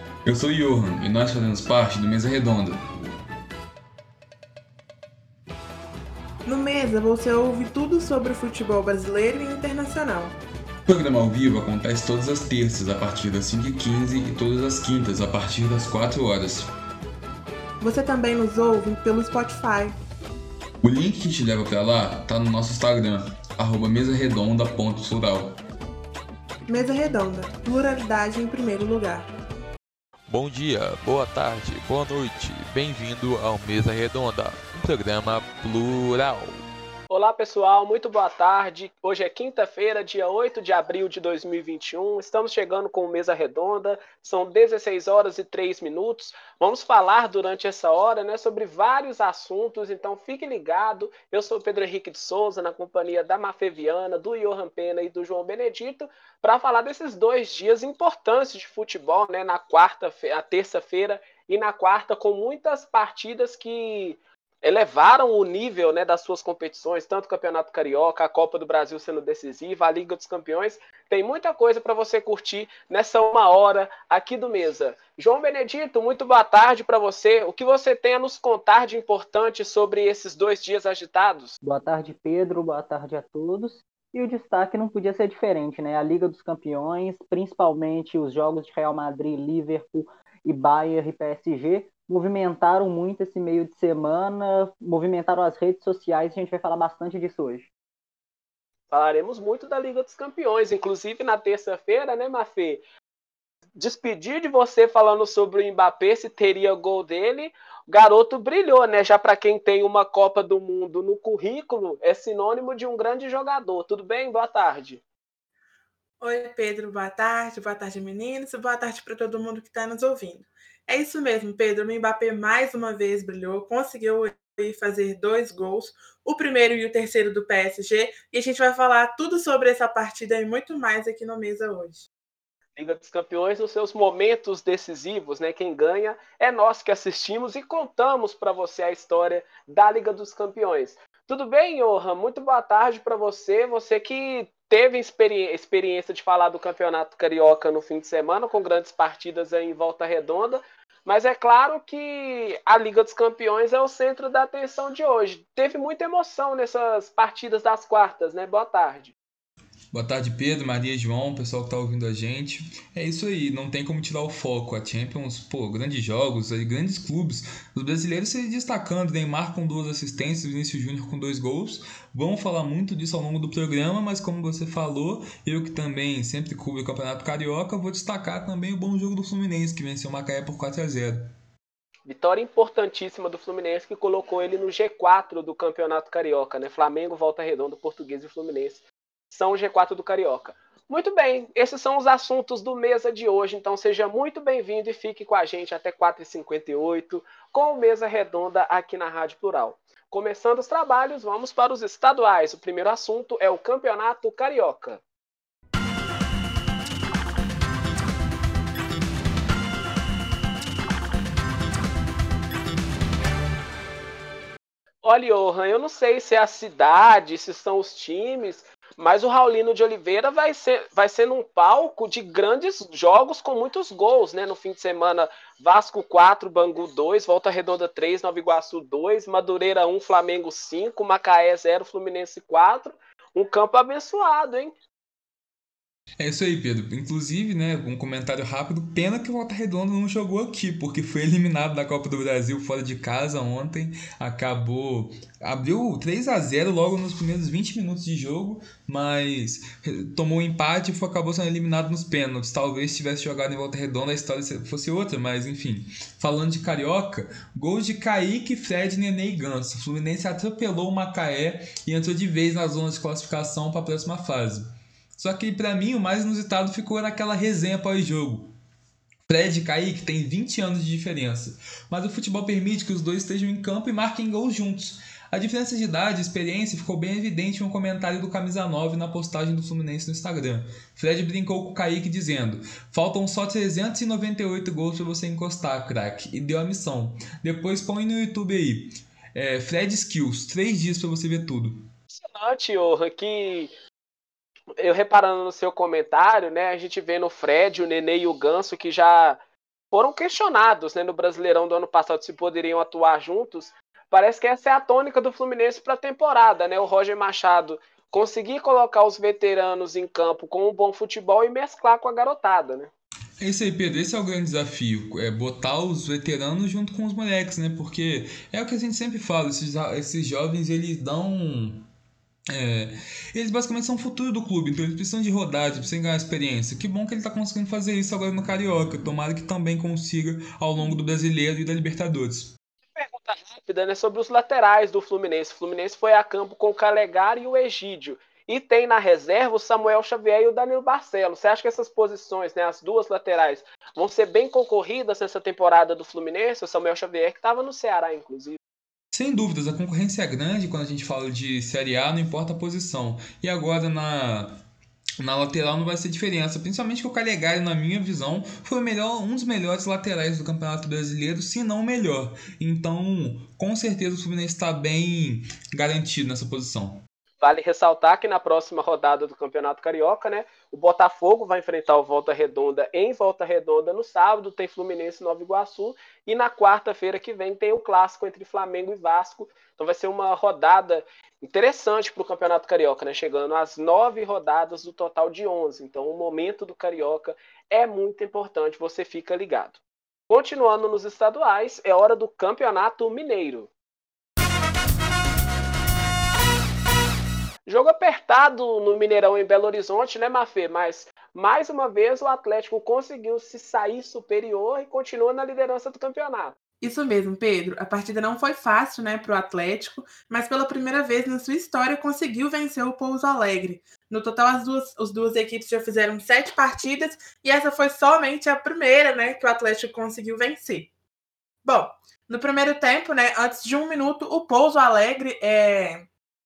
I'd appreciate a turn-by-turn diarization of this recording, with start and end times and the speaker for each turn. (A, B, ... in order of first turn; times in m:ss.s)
0:00.2-0:03.2 A
0:06.4-0:10.4 B
0:10.9-0:16.7 A
0:17.8-0:20.0 B
0:20.8-0:25.6 A
0:26.7-0:29.3 B
0:30.3-0:36.6 C
0:37.1-1:21.6 D
1:21.6-1:37.7 E
1:38.9-1:42.8 D
1:43.8-1:55.0 D
1:56.2-2:12.1 B
2:12.8-2:39.1 D
2:39.9-3:01.3 A
3:02.1-3:25.0 D
3:35.0-3:54.8 D
3:56.2-4:28.5 A
4:29.3-4:51.9 A
4:52.1-4:53.7 D
4:54.8-4:59.4 D
4:59.9-5:12.9 D
5:13.4-5:21.9 A
5:22.5-5:32.5 A
5:33.0-5:48.6 D
5:49.1-5:54.6 A
5:55.2-6:07.0 A
6:07.4-6:33.7 D
6:37.7-6:46.6 D
6:46.8-7:00.9 B
7:01.6-7:06.1 B